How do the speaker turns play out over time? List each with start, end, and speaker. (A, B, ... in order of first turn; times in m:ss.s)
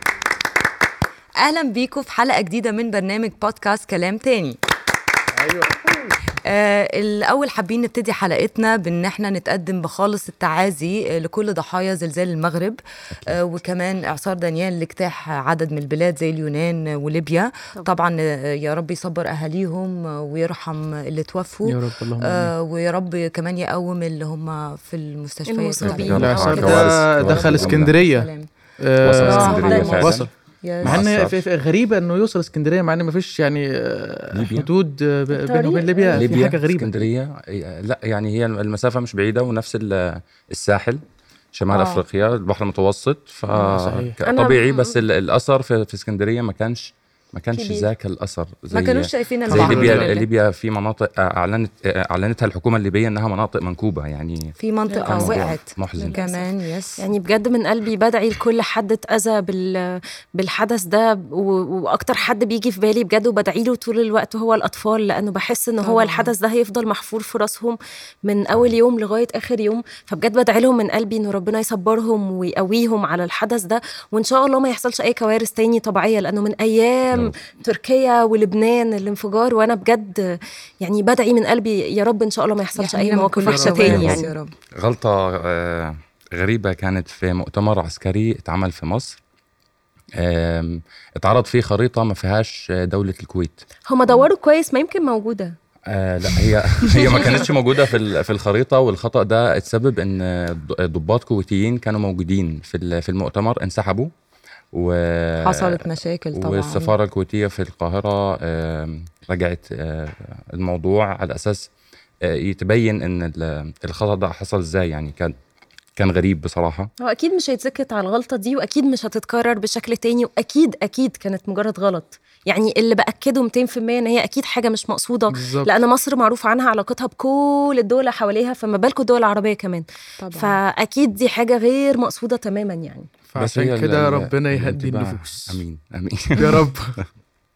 0:01.4-0:04.6 A
0:05.4-0:06.1 B
0:06.4-0:28.5 A
0:21.6-0:22.5 B
0:25.5-0:26.9 C
0:25.8-0:27.9 D
0:26.2-0:28.3 B
0:28.8-0:30.3 B
0:29.0-0:30.3 D
0:29.2-0:31.0 A
0:29.2-0:30.1 C
0:30.8-0:31.4 D
0:30.8-0:37.1 B
0:34.3-0:34.7 D
0:35.3-0:36.4 C
0:36.1-0:41.0 D
0:41.5-0:54.5 D
0:41.7-0:42.0 A
0:43.5-0:44.1 B
0:44.2-0:45.0 C
0:47.5-0:47.9 C
0:48.7-0:50.2 A
0:49.5-0:50.1 B
0:54.6-0:57.0 A
0:54.9-1:24.3 C
0:55.0-0:56.2 D
1:05.8-1:06.3 A
1:22.8-1:24.5 A
1:23.4-1:24.0 B
1:23.9-1:24.2 D
1:24.8-1:29.2 D
1:30.2-1:33.6 D
1:33.9-1:35.5 C
1:35.9-1:44.1 D
1:44.7-1:51.7 D
1:45.4-1:47.0 A
1:52.2-1:55.3 D
1:56.0-1:56.9 D
1:57.0-2:13.1 C
2:05.3-2:05.7 B
2:10.2-2:10.6 A
2:13.3-2:15.6 B
2:13.4-2:16.7 D
2:16.4-2:17.0 B